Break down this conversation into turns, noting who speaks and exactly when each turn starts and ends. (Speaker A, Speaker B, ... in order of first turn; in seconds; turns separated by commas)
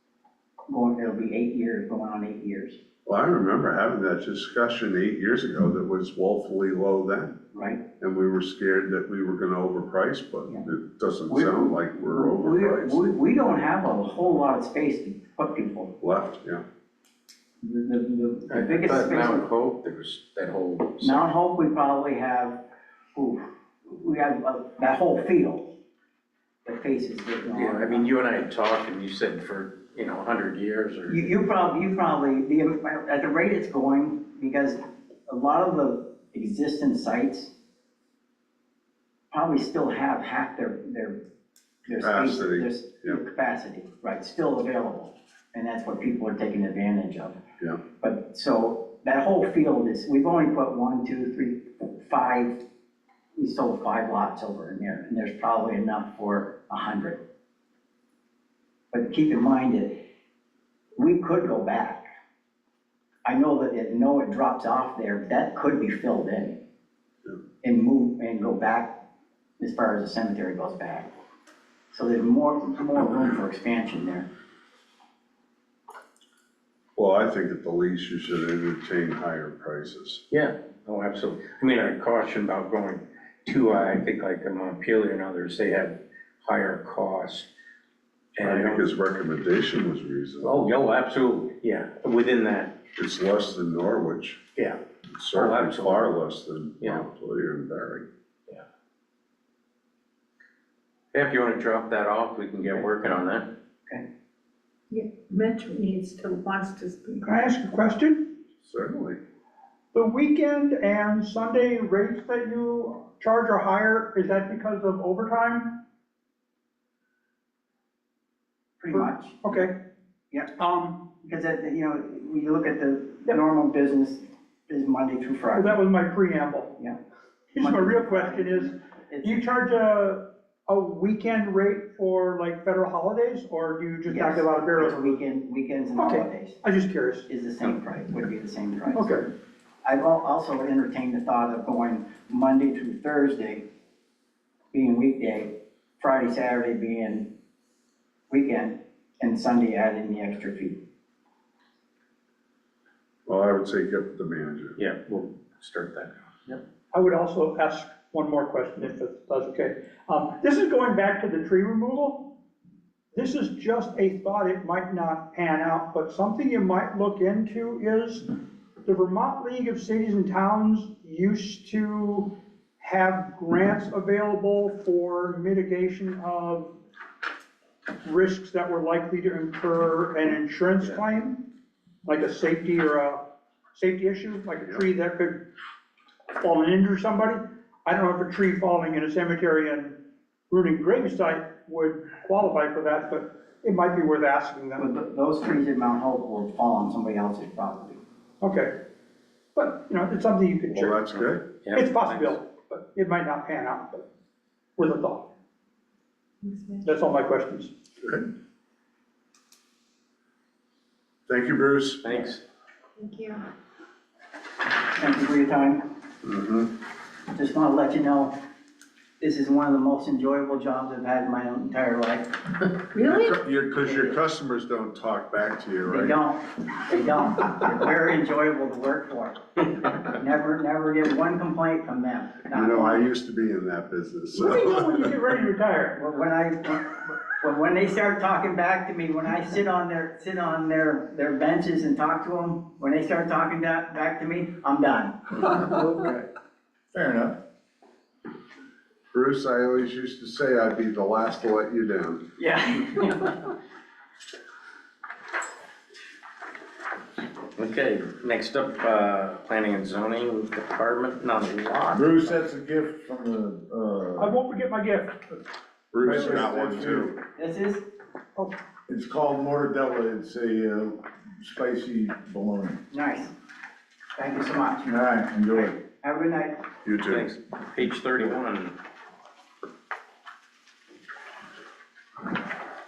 Speaker A: 0.7-2.8, Speaker B: 3.1-7.4, Speaker A: 7.5-7.8, Speaker B: 8.0-13.1, Speaker A: 11.3-15.9, Speaker B: 16.0-16.6, Speaker A: 17.6-19.5, Speaker C: 18.5-21.3, Speaker A: 21.0-22.6, Speaker A: 23.1-25.7, Speaker A: 26.7-28.1, Speaker C: 27.5-31.3, Speaker A: 31.1-37.5, Speaker A: 39.3-41.2, Speaker A: 41.9-47.4, Speaker B: 42.0-43.2, Speaker A: 48.0-52.6, Speaker A: 53.4-57.2, Speaker A: 58.9-60.0, Speaker A: 61.0-62.0, Speaker A: 63.2-66.6, Speaker A: 67.6-69.0, Speaker A: 69.6-71.1, Speaker A: 71.9-74.3, Speaker B: 77.0-80.2, Speaker C: 80.3-87.5, Speaker C: 88.4-88.8, Speaker B: 88.4-90.7, Speaker C: 90.4-92.7, Speaker B: 93.0-94.4, Speaker B: 95.1-98.1, Speaker C: 95.3-96.1, Speaker C: 101.1-103.5, Speaker D: 104.9-107.3, Speaker E: 107.2-108.3, Speaker B: 108.6-109.2, Speaker E: 109.9-115.8, Speaker A: 118.8-119.7, Speaker E: 118.9-119.8, Speaker E: 120.6-121.1, Speaker A: 121.2-125.8, Speaker E: 125.5-126.8, Speaker E: 127.5-135.1, Speaker A: 127.6-129.4, Speaker A: 134.1-136.6, Speaker E: 136.0-137.3, Speaker A: 137.3-139.3, Speaker E: 138.9-139.3, Speaker A: 139.8-143.7, Speaker A: 144.7-147.3, Speaker A: 148.3-150.8, Speaker B: 153.3-154.8, Speaker C: 154.8-156.6, Speaker E: 156.9-162.4, Speaker E: 163.1-168.3, Speaker E: 168.8-176.8, Speaker E: 178.0-181.5, Speaker E: 182.1-183.2, Speaker E: 183.7-185.5, Speaker E: 186.4-190.0, Speaker E: 190.5-194.9, Speaker A: 194.8-198.0, Speaker E: 198.4-198.7, Speaker E: 199.6-201.0, Speaker B: 200.7-201.4, Speaker C: 201.1-202.4, Speaker E: 201.7-204.1, Speaker E: 204.8-205.3, Speaker D: 206.4-206.9, Speaker E: 206.8-207.7, Speaker B: 211.3-212.3, Speaker C: 212.0-212.4, Speaker D: 213.0-213.4, Speaker A: 214.8-215.8, Speaker B: 216.2-216.7, Speaker A: 217.3-218.4, Speaker A: 219.2-222.4, Speaker D: 222.9-223.4, Speaker B: 223.0-226.2, Speaker A: 225.9-233.1, Speaker B: 232.5-234.9, Speaker E: 234.3-236.0, Speaker A: 235.9-245.4, Speaker F: 245.5-246.3, Speaker F: 246.9-247.4, Speaker B: 249.1-252.2, Speaker A: 252.4-253.5, Speaker C: 257.6-262.3, Speaker F: 261.9-264.4, Speaker E: 264.2-265.2, Speaker B: 265.9-267.1, Speaker F: 266.0-267.2, Speaker A: 267.4-267.9, Speaker F: 268.9-272.8, Speaker A: 272.9-273.3, Speaker A: 274.2-276.6, Speaker F: 274.9-275.8, Speaker B: 276.8-277.3, Speaker C: 277.1-278.8